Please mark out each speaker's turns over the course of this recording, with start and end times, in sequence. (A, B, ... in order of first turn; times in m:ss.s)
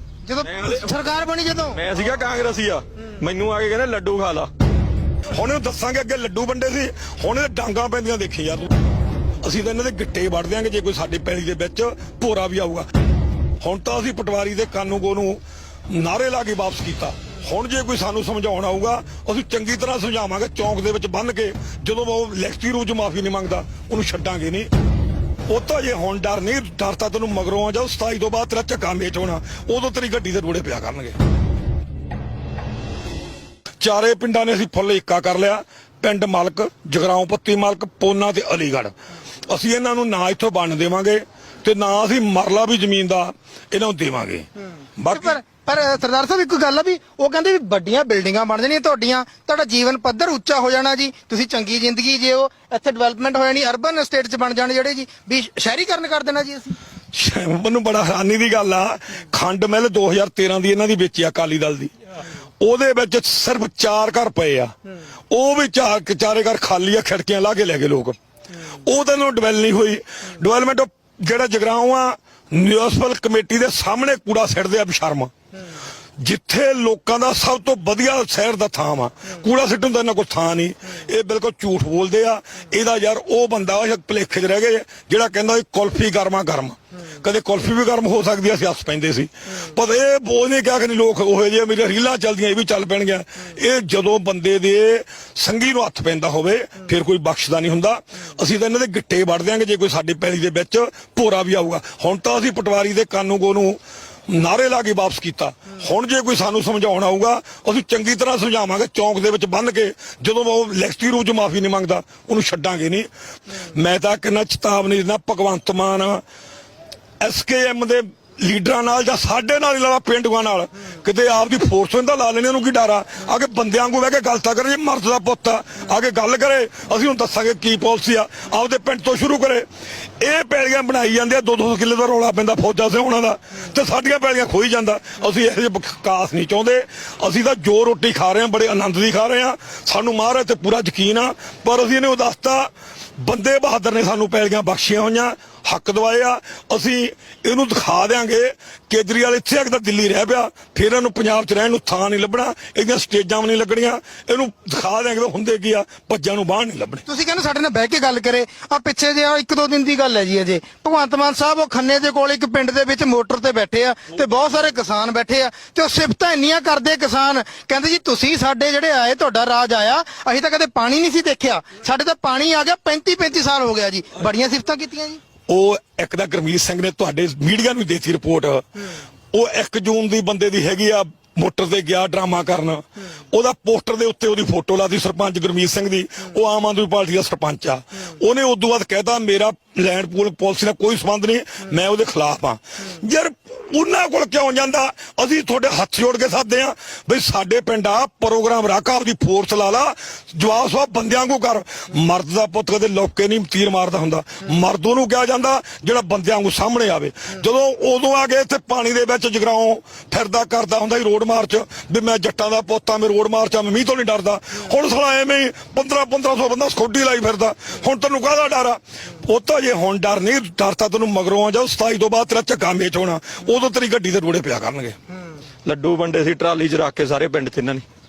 0:00.4-0:00.9 A
0:01.1-0:01.6 B
0:01.7-0:04.5 A
0:05.3-0:08.7 C
0:09.4-0:12.9 C
0:13.6-0:24.7 C
0:25.5-0:31.2 C
0:33.8-0:38.9 C
0:39.5-0:44.5 C
0:45.0-0:45.4 C
0:45.2-0:56.7 B
0:57.1-1:01.9 C
1:02.6-1:04.7 C
1:05.3-1:08.2 C
1:08.8-1:15.3 C
1:16.2-1:56.2 C
1:57.2-2:09.7 C
2:10.2-2:37.0 C
2:37.1-2:55.2 B
2:55.5-2:58.7 C
2:59.3-3:45.0 C
3:45.6-3:47.8 A